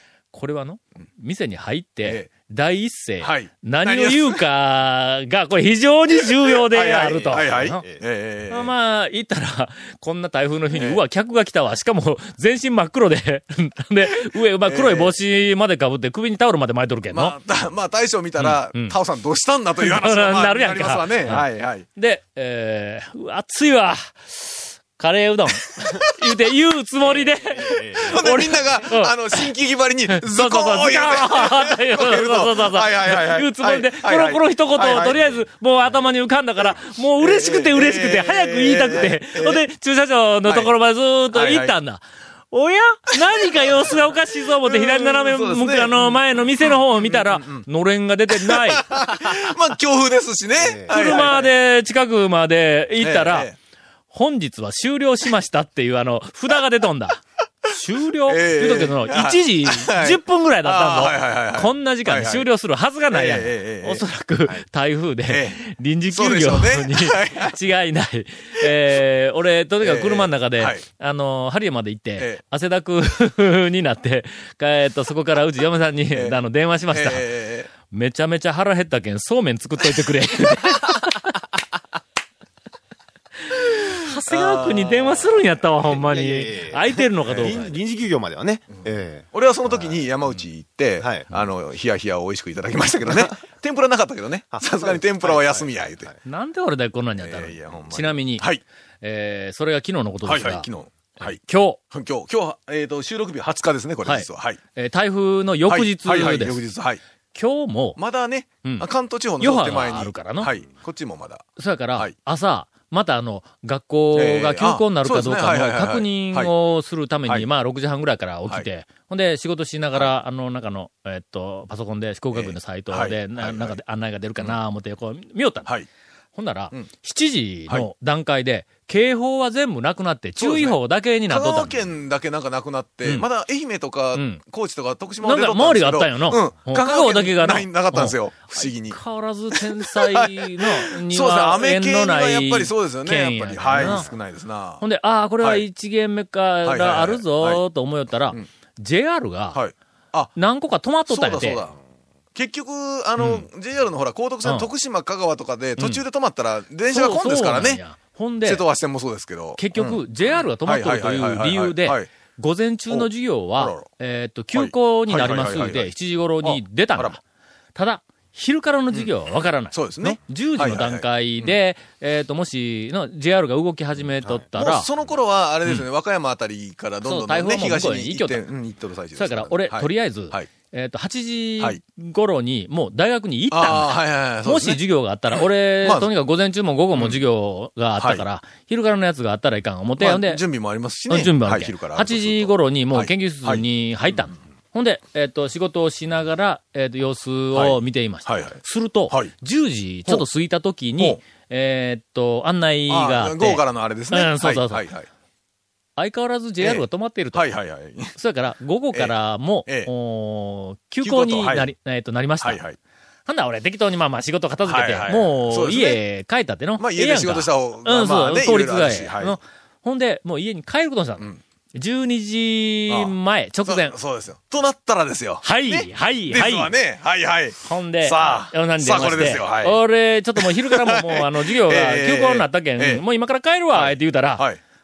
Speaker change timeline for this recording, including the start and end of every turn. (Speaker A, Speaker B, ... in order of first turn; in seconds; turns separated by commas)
Speaker A: 0.3-7.8, Speaker B: 2.0-2.3, Speaker B: 3.2-4.4, Speaker B: 6.5-8.7, Speaker A: 8.5-17.4, Speaker B: 10.7-11.0, Speaker B: 14.7-15.2, Speaker B: 17.1-21.9, Speaker A: 18.4-19.0, Speaker A: 19.8-29.5, Speaker C: 27.3-28.2, Speaker B: 28.0-35.4, Speaker A: 30.1-49.0, Speaker B: 37.2-39.6, Speaker B: 40.5-40.7, Speaker B: 41.3-41.8, Speaker B: 44.6-47.7, Speaker B: 48.3-51.5, Speaker C: 50.6-51.2, Speaker A: 50.9-53.5, Speaker B: 53.0-53.6, Speaker A: 54.1-77.3, Speaker B: 58.3-62.5, Speaker B: 63.1-64.0, Speaker B: 65.3-65.6, Speaker B: 66.1-67.5, Speaker B: 69.8-70.8, Speaker B: 76.1-76.4, Speaker B: 76.9-77.7, Speaker A: 77.9-81.3, Speaker A: 83.5-87.7, Speaker B: 84.3-85.3, Speaker C: 85.9-90.0, Speaker B: 87.3-87.8, Speaker B: 89.3-96.1, Speaker C: 91.0-91.3, Speaker C: 94.5-96.1, Speaker A: 96.2-98.5, Speaker B: 97.2-98.6, Speaker A: 99.0-100.7, Speaker B: 100.3-104.6, Speaker A: 101.3-101.8, Speaker A: 104.0-106.6, Speaker B: 105.7-107.0, Speaker A: 107.3-108.0, Speaker B: 108.0-111.5, Speaker A: 109.4-110.5, Speaker A: 111.6-125.7, Speaker B: 114.1-116.5, Speaker B: 122.3-123.8, Speaker A: 126.3-131.8, Speaker B: 130.4-139.0, Speaker A: 134.1-134.4, Speaker A: 135.2-144.1, Speaker B: 139.5-144.8, Speaker C: 143.7-144.0, Speaker A: 144.8-149.6, Speaker B: 146.7-147.6, Speaker B: 149.5-150.3, Speaker A: 150.3-151.6, Speaker B: 151.1-151.8, Speaker B: 152.3-157.8, Speaker A: 153.2-153.4, Speaker A: 154.4-154.7, Speaker A: 155.8-156.0, Speaker A: 156.9-158.6, Speaker B: 158.4-160.0, Speaker A: 159.6-167.2, Speaker B: 160.6-162.1, Speaker B: 163.6-163.9, Speaker B: 164.5-167.2, Speaker A: 167.8-174.9, Speaker B: 169.7-171.5, Speaker B: 174.6-180.5, Speaker A: 177.0-178.4, Speaker A: 179.2-190.4, Speaker B: 183.5-186.1, Speaker B: 186.9-187.2, Speaker B: 188.0-188.2, Speaker B: 190.0-193.6, Speaker A: 191.1-204.9, Speaker B: 197.6-198.6, Speaker B: 202.9-205.1, Speaker A: 206.0-207.5, Speaker B: 206.6-208.2, Speaker A: 208.1-212.6, Speaker B: 209.7-209.9, Speaker B: 211.0-211.7, Speaker B: 212.4-212.8, Speaker A: 213.3-224.0, Speaker B: 214.7-216.0, Speaker B: 216.8-219.4, Speaker B: 222.9-223.1, Speaker B: 223.7-229.8, Speaker A: 225.4-226.7, Speaker A: 227.6-234.4, Speaker B: 230.4-233.0, Speaker B: 233.7-234.6